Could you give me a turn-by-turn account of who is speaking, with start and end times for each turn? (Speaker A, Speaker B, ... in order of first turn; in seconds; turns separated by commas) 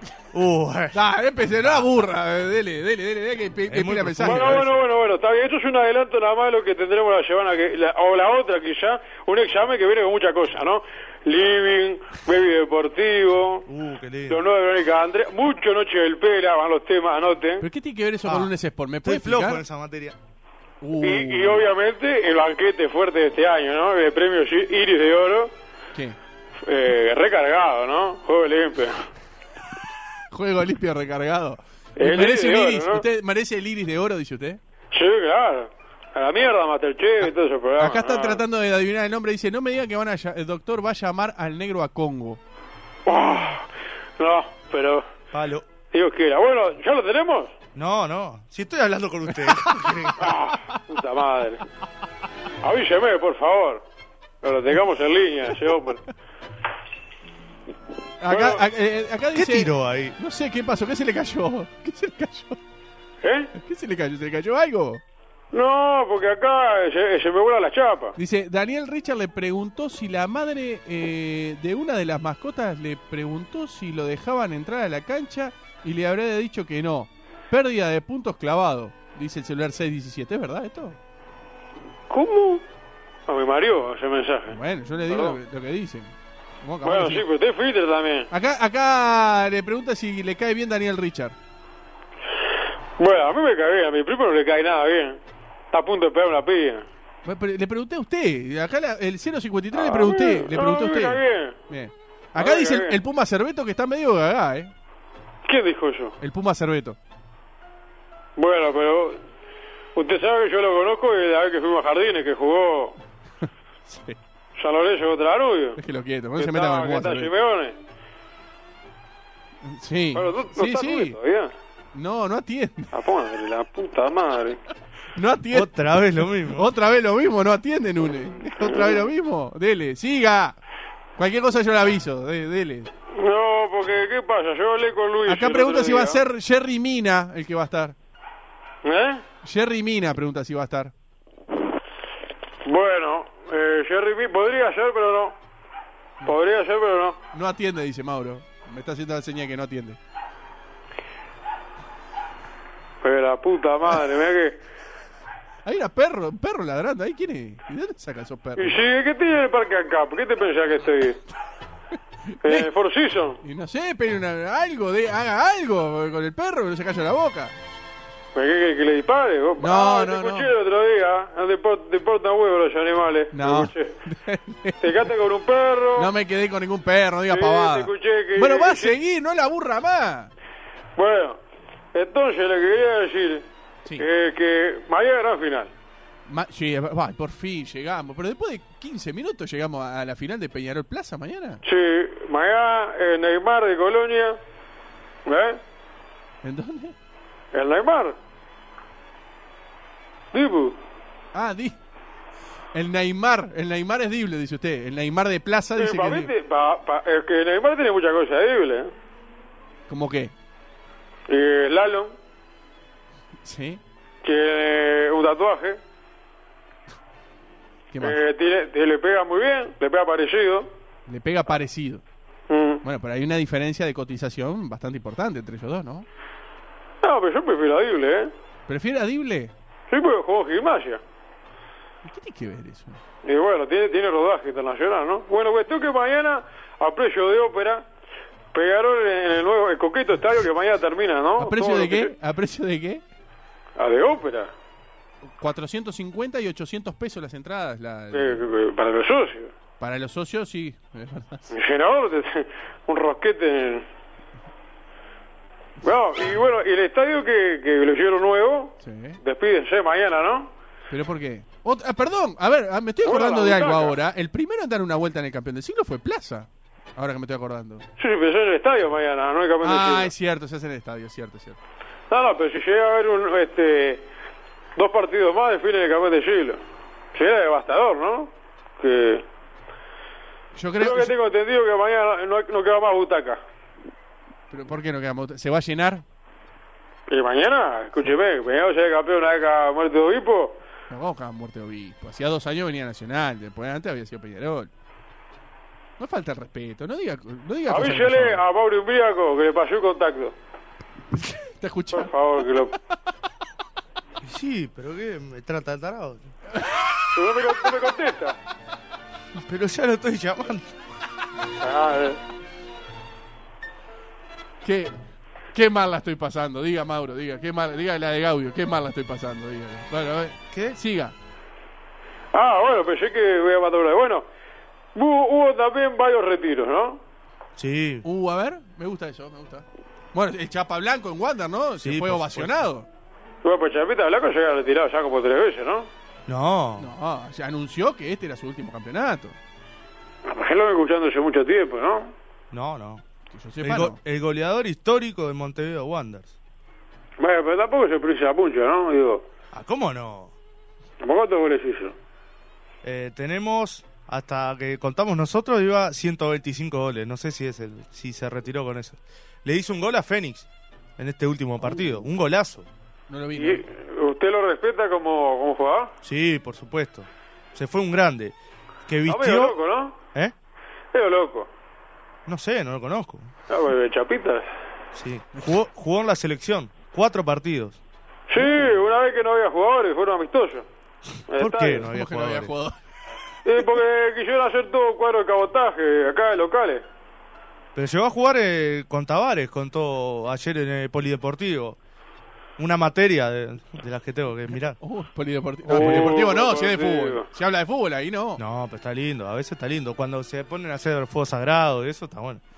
Speaker A: 0.3-1.0, Speaker B: 0.9-4.7, Speaker A: 1.6-1.9, Speaker A: 3.7-4.7, Speaker C: 4.2-13.7, Speaker A: 13.7-14.4, Speaker C: 14.3-17.6, Speaker B: 17.6-19.6, Speaker A: 18.2-18.5, Speaker A: 19.0-20.1, Speaker B: 20.8-21.7, Speaker C: 21.0-25.5, Speaker C: 26.6-29.1, Speaker B: 30.3-34.6, Speaker C: 32.0-33.0, Speaker C: 34.9-38.4, Speaker B: 37.8-42.4, Speaker C: 43.0-43.7, Speaker C: 44.2-45.0, Speaker A: 45.3-45.6, Speaker C: 45.9-47.5, Speaker A: 47.7-50.3, Speaker B: 49.4-50.0, Speaker C: 50.2-51.6, Speaker C: 52.6-53.8, Speaker C: 54.4-56.0, Speaker B: 58.2-62.6, Speaker C: 58.3-58.6, Speaker A: 59.3-60.1, Speaker C: 63.2-63.5, Speaker B: 63.5-65.0, Speaker C: 65.5-68.2, Speaker B: 68.2-81.0, Speaker C: 82.1-82.6, Speaker C: 83.3-85.4, Speaker B: 84.5-86.1, Speaker B: 86.6-87.2, Speaker C: 86.8-88.3, Speaker B: 88.3-91.3, Speaker C: 93.0-95.2, Speaker C: 95.7-96.8, Speaker B: 97.2-104.7, Speaker C: 99.7-101.5, Speaker C: 102.3-103.0, Speaker C: 105.5-106.2, Speaker B: 106.2-107.0, Speaker C: 108.3-109.2, Speaker C: 109.9-113.0, Speaker B: 113.9-114.2, Speaker C: 114.5-115.8, Speaker B: 115.8-117.3, Speaker C: 116.4-117.8, Speaker B: 119.6-121.2, Speaker C: 120.1-121.5, Speaker B: 121.9-122.9, Speaker C: 122.9-124.6, Speaker B: 125.2-125.7, Speaker A: 125.5-126.7, Speaker B: 126.4-130.6, Speaker C: 128.6-129.0, Speaker B: 131.2-132.9, Speaker C: 133.1-136.2, Speaker B: 135.3-137.9, Speaker C: 138.8-139.2, Speaker B: 139.4-140.9, Speaker C: 142.6-145.4, Speaker C: 146.2-147.2, Speaker B: 147.3-150.0, Speaker C: 153.0-154.6, Speaker B: 155.6-158.8, Speaker C: 158.6-161.2, Speaker B: 162.3-162.7, Speaker C: 162.4-163.4, Speaker B: 163.4-167.5, Speaker C: 168.3-174.0, Speaker B: 169.6-170.5, Speaker B: 173.3-174.8, Speaker C: 174.8-176.1, Speaker B: 176.0-180.3, Speaker C: 177.3-178.9, Speaker C: 180.9-181.4, Speaker C: 181.9-183.4, Speaker C: 184.0-185.7, Speaker B: 186.3-191.6, Speaker C: 191.6-194.4, Speaker C: 195.2-195.6, Speaker B: 196.4-196.9, Speaker C: 197.5-198.2, Speaker C: 200.3-200.8, Speaker B: 201.3-201.8, Speaker B: 202.7-206.3, Speaker C: 205.8-208.9, Speaker B: 209.9-210.3, Speaker C: 211.3-212.1, Speaker B: 213.4-213.8, Speaker C: 214.2-215.8, Speaker B: 217.9-218.2, Speaker C: 218.0-220.7, Speaker B: 221.1-222.0, Speaker C: 222.5-222.8, Speaker B: 222.8-226.1, Speaker C: 227.0-228.3, Speaker B: 228.7-229.5, Speaker C: 229.9-231.0, Speaker B: 232.0-233.0, Speaker C: 233.2-237.8, Speaker C: 238.5-242.1, Speaker B: 241.4-243.0, Speaker C: 243.8-244.5, Speaker B: 245.3-248.4, Speaker C: 248.1-249.5, Speaker B: 249.8-251.5, Speaker C: 251.5-253.8, Speaker C: 255.8-260.5, Speaker B: 258.8-259.2, Speaker B: 260.9-267.8, Speaker C: 263.0-263.9, Speaker C: 268.0-270.1, Speaker B: 269.6-271.6, Speaker C: 272.1-274.0, Speaker C: 274.8-276.6, Speaker C: 277.1-279.2, Speaker B: 280.5-281.1, Speaker C: 280.8-283.4, Speaker B: 284.5-286.0, Speaker C: 287.1-290.6, Speaker B: 290.9-294.7, Speaker B: 296.0-298.4, Speaker C: 297.7-300.3, Speaker B: 301.1-302.2, Speaker C: 301.9-302.7, Speaker A: 304.2-306.2, Speaker C: 307.1-308.4, Speaker A: 309.4-310.7, Speaker C: 311.6-312.2, Speaker B: 314.6-314.9, Speaker B: 315.5-321.1, Speaker A: 320.5-320.8, Speaker C: 322.3-324.2, Speaker C: 324.9-327.0, Speaker A: 327.6-328.1, Speaker B: 328.0-332.9, Speaker A: 331.8-332.6, Speaker C: 333.4-335.9, Speaker A: 336.3-336.9, Speaker B: 336.8-339.4, Speaker C: 340.2-342.1, Speaker A: 342.5-343.0, Speaker B: 343.3-344.0, Speaker A: 343.6-346.3, Speaker C: 347.2-349.2, Speaker A: 349.5-350.3, Speaker C: 351.0-351.9, Speaker A: 352.8-360.5, Speaker A: 361.0-362.7, Speaker B: 361.6-362.0, Speaker B: 363.1-363.6, Speaker C: 363.4-365.9, Speaker A: 366.0-368.3, Speaker A: 368.9-369.6, Speaker C: 369.1-369.9, Speaker C: 370.9-371.5, Speaker A: 372.2-373.3, Speaker C: 373.5-374.4, Speaker A: 374.9-377.8, Speaker C: 378.3-380.6, Speaker C: 381.3-381.9, Speaker A: 381.4-382.5, Speaker B: 381.8-382.8, Speaker C: 383.4-386.8, Speaker A: 387.7-391.8, Speaker A: 392.6-394.8, Speaker B: 394.8-398.4, Speaker C: 395.7-397.3, Speaker A: 395.7-396.2, Speaker A: 398.4-402.4